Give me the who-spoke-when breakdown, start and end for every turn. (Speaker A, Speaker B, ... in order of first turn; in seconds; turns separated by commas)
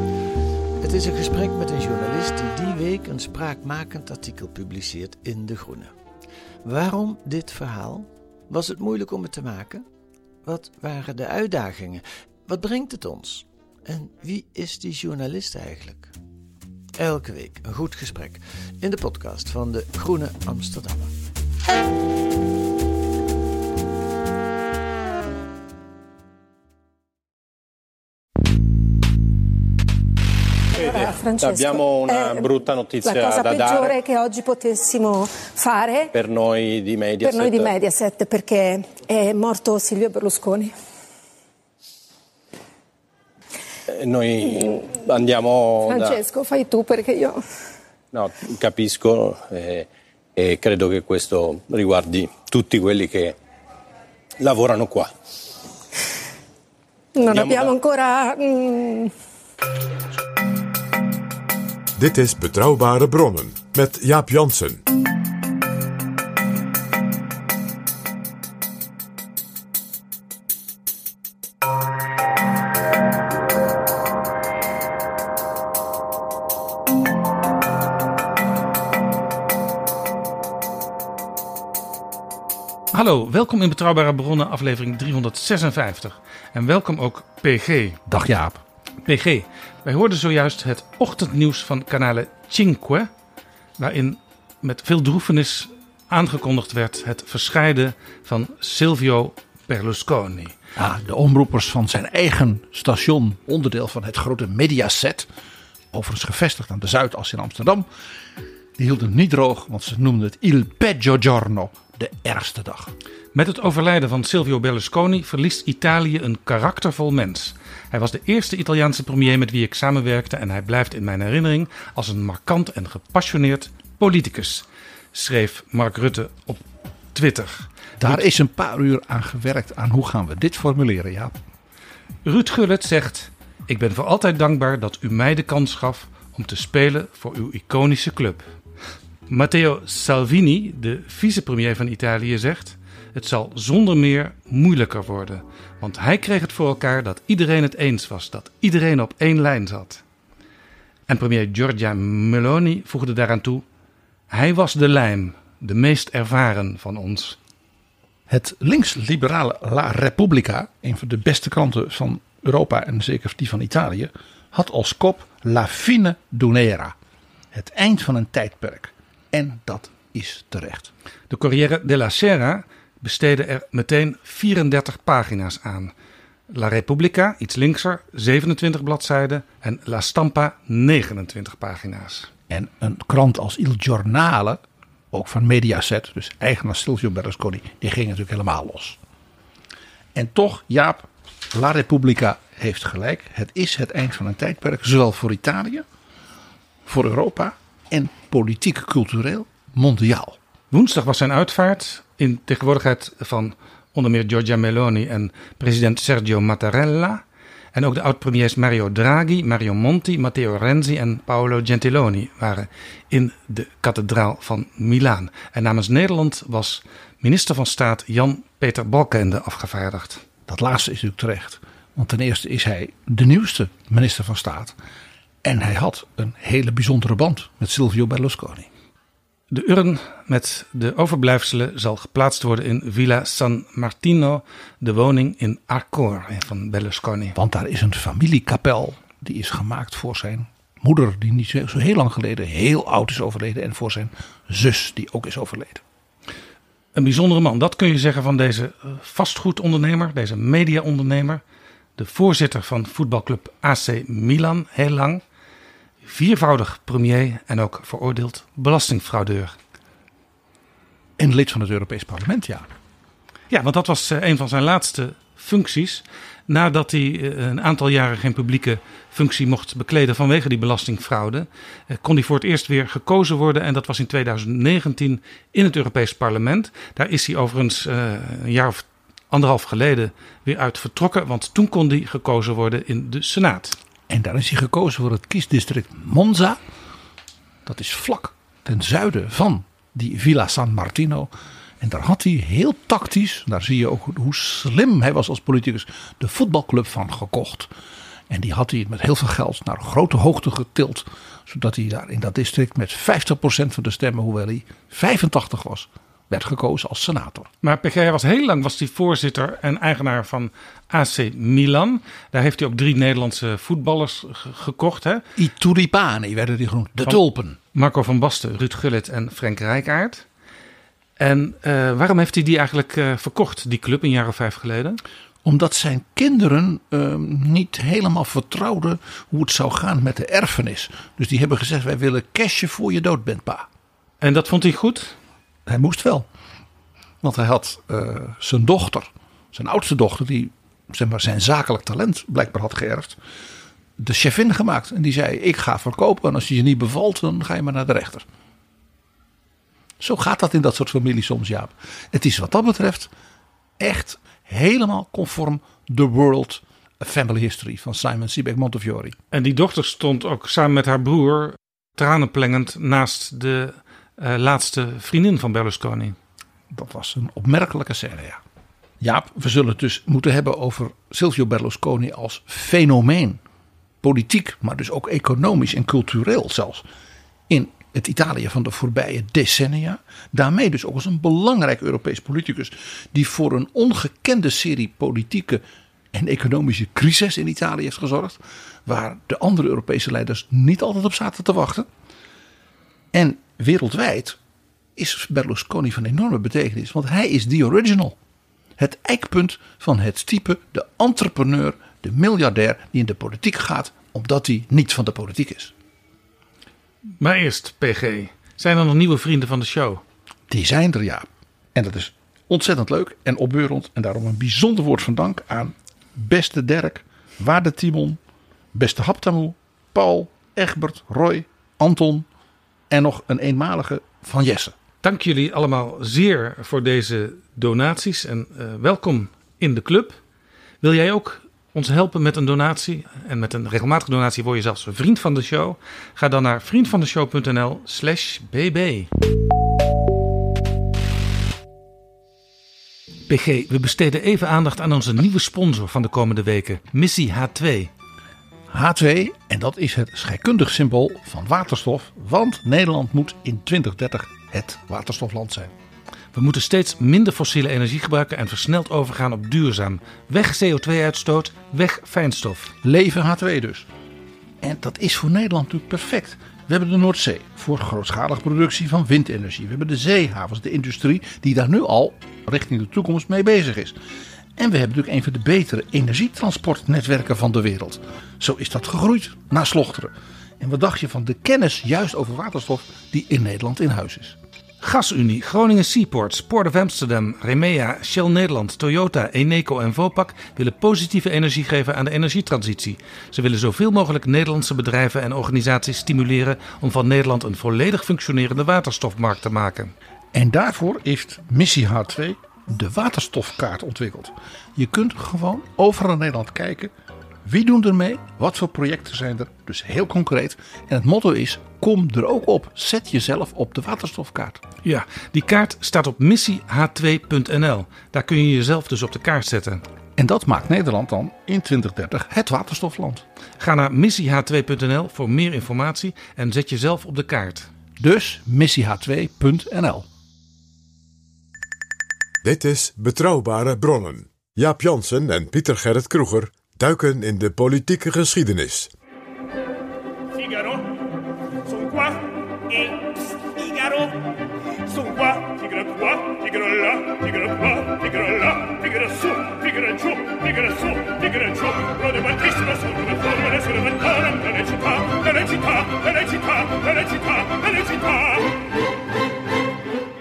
Speaker A: 0.8-5.9, Speaker A: 6.6-9.8, Speaker A: 10.4-16.1, Speaker A: 16.9-21.1, Speaker B: 30.8-32.5, Speaker C: 30.8-34.0, Speaker B: 33.0-36.1, Speaker C: 36.1-37.7, Speaker B: 37.2-40.7, Speaker C: 43.9-46.2, Speaker B: 45.9-47.4, Speaker C: 48.1-53.3, Speaker C: 54.4-55.1, Speaker B: 57.1-59.1, Speaker C: 57.3-57.7, Speaker D: 62.0-64.8, Speaker E: 82.9-88.0, Speaker F: 88.1-88.6, Speaker E: 89.0-93.1, Speaker E: 93.8-100.6, Speaker F: 100.8-105.3, Speaker F: 105.9-107.9, Speaker F: 108.8-112.9, Speaker E: 113.3-128.3, Speaker F: 128.0-131.3, Speaker E: 132.2-138.5, Speaker E: 139.3-150.0, Speaker E: 151.1-153.6, Speaker E: 154.3-157.4, Speaker F: 158.3-166.9, Speaker F: 167.5-170.9, Speaker E: 171.3-175.9, Speaker E: 176.5-182.3, Speaker F: 182.5-189.0, Speaker F: 190.1-195.8, Speaker F: 196.8-200.4, Speaker E: 200.7-207.2, Speaker E: 207.7-220.2, Speaker F: 220.5-224.8, Speaker F: 225.4-228.7, Speaker E: 229.5-237.3, Speaker F: 237.3-245.8, Speaker E: 246.9-251.4, Speaker E: 252.0-255.2, Speaker E: 256.0-259.5, Speaker F: 261.2-262.7, Speaker E: 263.5-283.8, Speaker F: 284.1-286.6, Speaker F: 287.6-297.7, Speaker F: 298.3-307.5, Speaker E: 307.6-315.2, Speaker F: 315.4-317.6, Speaker E: 317.7-320.2, Speaker E: 321.2-325.0, Speaker F: 325.4-333.7, Speaker E: 334.2-335.1, Speaker F: 335.6-336.3, Speaker F: 337.2-343.2, Speaker F: 344.0-348.2, Speaker F: 350.0-353.1, Speaker F: 353.8-359.2, Speaker E: 359.3-366.2, Speaker F: 366.7-368.4, Speaker F: 369.0-373.4, Speaker F: 374.0-376.8, Speaker F: 377.5-391.9, Speaker F: 393.1-394.4, Speaker F: 394.9-398.2, Speaker F: 398.8-405.7, Speaker E: 407.2-410.0, Speaker F: 410.5-418.2, Speaker F: 418.7-422.3, Speaker F: 422.9-424.7, Speaker E: 425.0-430.2, Speaker E: 430.8-439.1, Speaker E: 443.3-447.9, Speaker F: 448.7-455.7, Speaker E: 456.3-462.7, Speaker F: 462.8-463.9, Speaker F: 464.6-474.0, Speaker F: 474.6-484.4, Speaker E: 484.8-499.9, Speaker F: 500.3-506.9, Speaker F: 507.4-514.6, Speaker E: 514.8-519.8, Speaker F: 520.1-523.2, Speaker E: 523.6-527.7, Speaker F: 528.0-530.1, Speaker D: 532.4-538.9, Speaker G: 540.3-540.9, Speaker G: 541.6-544.1, Speaker G: 544.9-558.5